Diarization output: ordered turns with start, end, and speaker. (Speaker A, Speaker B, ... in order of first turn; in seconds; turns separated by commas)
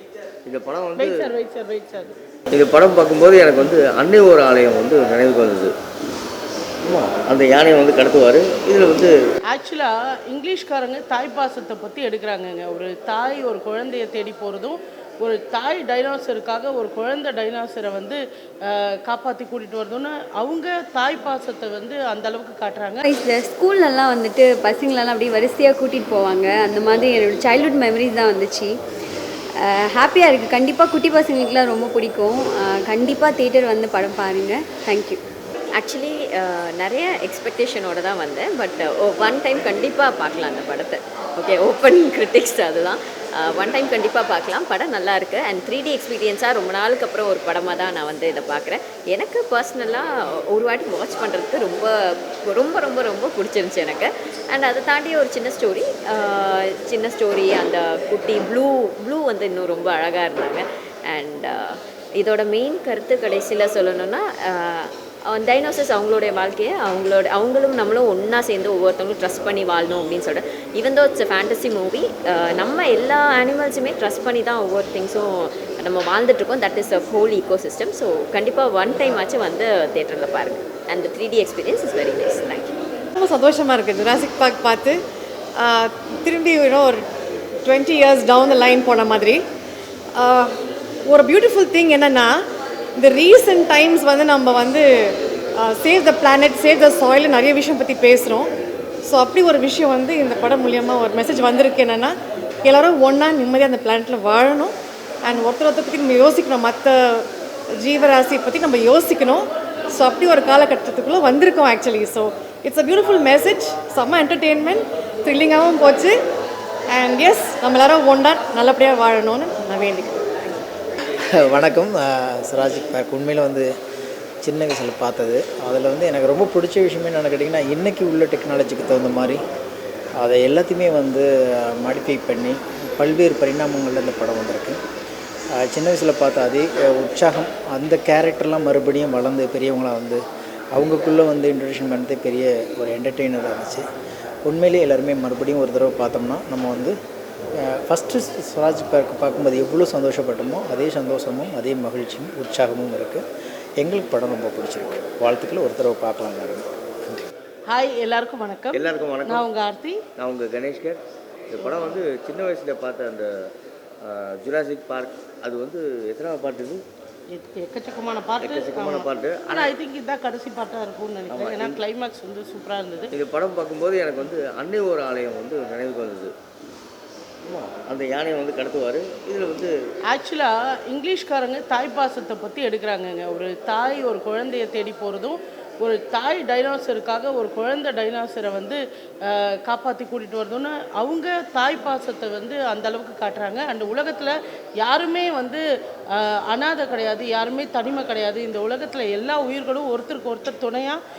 Speaker A: 0.5-1.3, Speaker B: 1.0-2.1, Speaker A: 2.5-5.7, Speaker A: 6.8-9.1, Speaker B: 9.5-23.0, Speaker C: 23.0-28.8, Speaker C: 29.6-35.2, Speaker D: 35.8-51.9, Speaker D: 52.5-82.8, Speaker E: 83.2-85.0, Speaker E: 85.6-87.1, Speaker E: 87.7-89.4, Speaker E: 90.1-92.5, Speaker E: 93.0-98.5, Speaker E: 99.1-116.2, Speaker E: 116.9-120.6, Speaker F: 121.4-123.7, Speaker F: 124.4-129.4, Speaker F: 130.2-134.8, Speaker F: 135.6-140.2, Speaker F: 140.7-143.8, Speaker F: 144.4-146.9, Speaker F: 147.7-153.2, Speaker F: 153.8-157.2, Speaker B: 157.7-160.0, Speaker A: 158.7-159.4, Speaker A: 160.2-163.3, Speaker A: 164.0-166.8, Speaker B: 167.3-173.1, Speaker A: 168.4-169.7, Speaker A: 171.3-171.8, Speaker A: 173.1-176.3, Speaker A: 177.4-179.7, Speaker B: 180.1-201.0